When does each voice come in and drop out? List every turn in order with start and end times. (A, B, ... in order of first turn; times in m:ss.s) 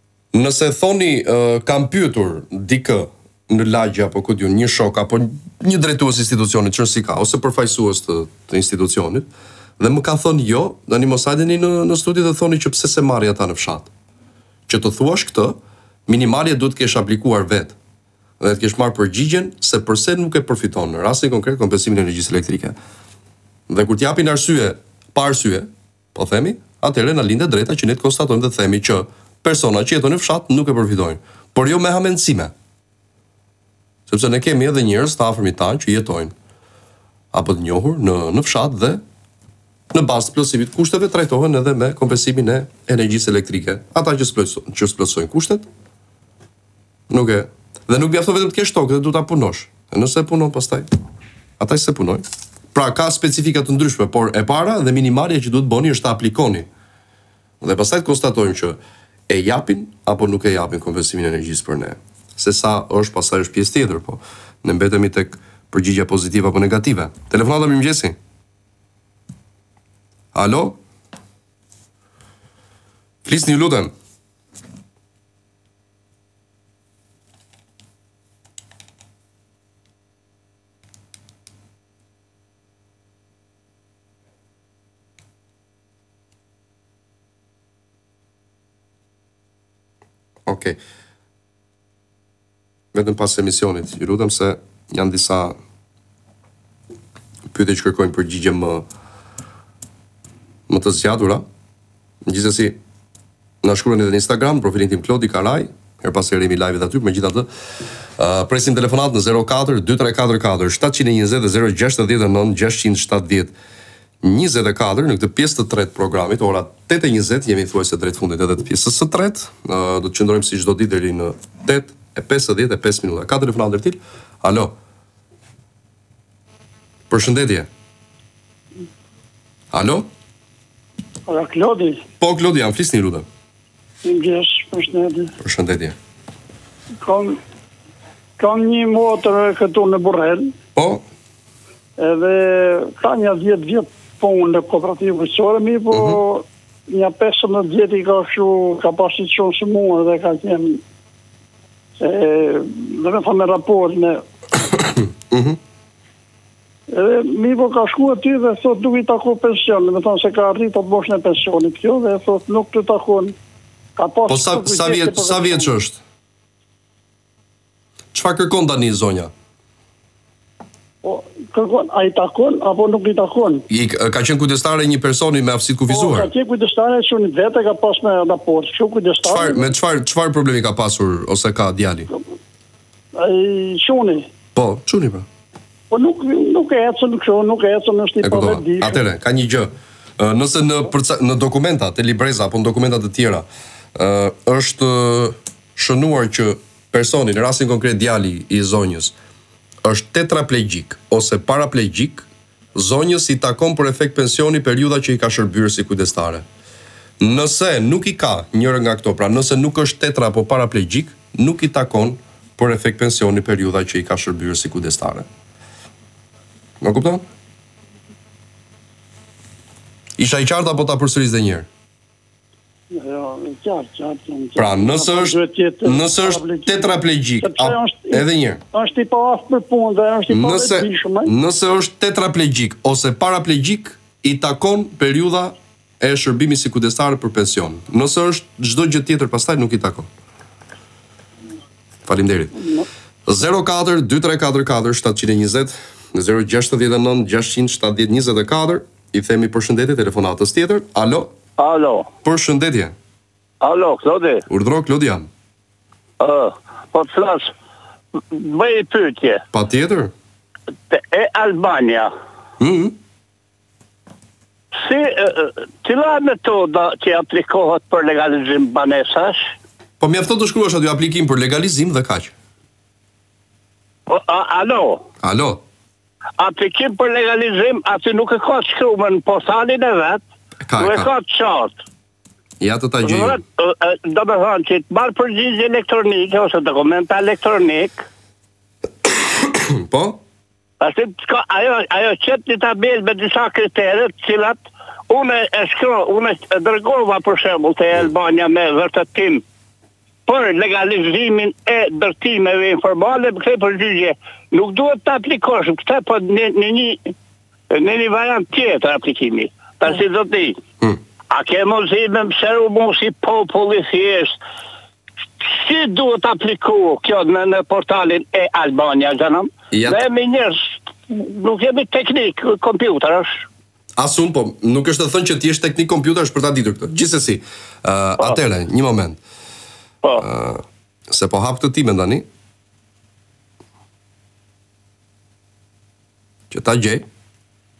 0:00.3-0:09.3 A
0:09.8-0:13.9 A
0:14.7-0:15.6 A
0:16.1-0:17.7 A
0:18.4-0:22.8 A
0:23.7-0:32.5 A
0:34.1-0:36.3 A
0:37.3-0:39.0 A
0:39.9-0:45.6 A
0:47.1-0:50.9 A
0:51.6-0:56.7 A
0:57.6-1:08.2 A
1:10.3-1:10.8 A
1:13.2-1:13.9 A
1:30.5-1:30.8 A
1:32.9-1:35.6 A
1:37.5-1:38.8 A
1:40.7-1:41.4 A
1:42.2-1:42.8 A
1:43.6-1:47.5 A
1:48.2-1:53.5 A
1:54.2-2:04.7 A
2:07.1-2:07.7 A
2:09.7-2:10.1 A
2:11.3-2:12.0 B
2:12.2-2:13.2 A
2:14.0-2:15.3 B
2:15.4-2:16.0 A
2:17.0-2:17.3 B
2:18.4-2:20.5 B
2:20.8-2:21.0 A
2:22.0-2:30.8 B
2:25.9-2:26.2 A
2:32.0-2:34.2 B
2:35.3-2:35.6 A
2:36.9-2:43.3 B
2:44.0-2:45.6 B
2:44.3-2:46.0 A
2:48.1-2:49.3 A
2:51.0-2:53.6 B
2:53.7-2:56.3 A
2:55.9-2:59.6 B
2:59.2-3:02.1 A
3:03.5-3:04.2 B
3:04.5-3:05.2 A
3:05.9-3:08.9 B
3:08.2-3:19.1 A
3:19.8-3:26.4 A
3:27.2-3:35.3 A
3:36.8-3:37.2 A
3:40.2-3:41.7 A
3:43.0-3:46.8 B
3:44.6-3:48.6 A
3:47.4-3:48.2 B
3:48.7-3:51.3 B
3:50.3-4:00.1 A
4:02.0-4:02.5 A
4:03.3-4:11.3 A
4:11.6-4:12.1 C
4:12.2-4:12.9 A
4:13.6-4:14.4 C
4:14.5-4:15.3 A
4:16.2-4:17.5 C
4:18.3-4:19.4 C
4:19.5-4:20.1 A
4:20.9-4:22.1 C
4:22.6-4:23.0 A
4:24.8-4:29.5 C
4:30.0-4:32.3 A
4:34.1-4:35.0 C
4:35.2-4:35.6 A
4:36.4-4:40.2 C
4:40.6-4:41.1 A
4:40.8-4:41.8 C
4:42.6-4:43.4 A
4:43.0-4:48.0 C
4:49.1-4:50.2 A
4:50.8-4:59.4 C
5:00.3-5:07.1 C
5:07.7-5:10.6 C
5:11.3-5:14.4 C
5:15.4-5:23.5 C
5:19.7-5:20.0 A
5:24.0-5:29.2 A
5:30.2-5:32.2 A
5:36.5-5:37.0 A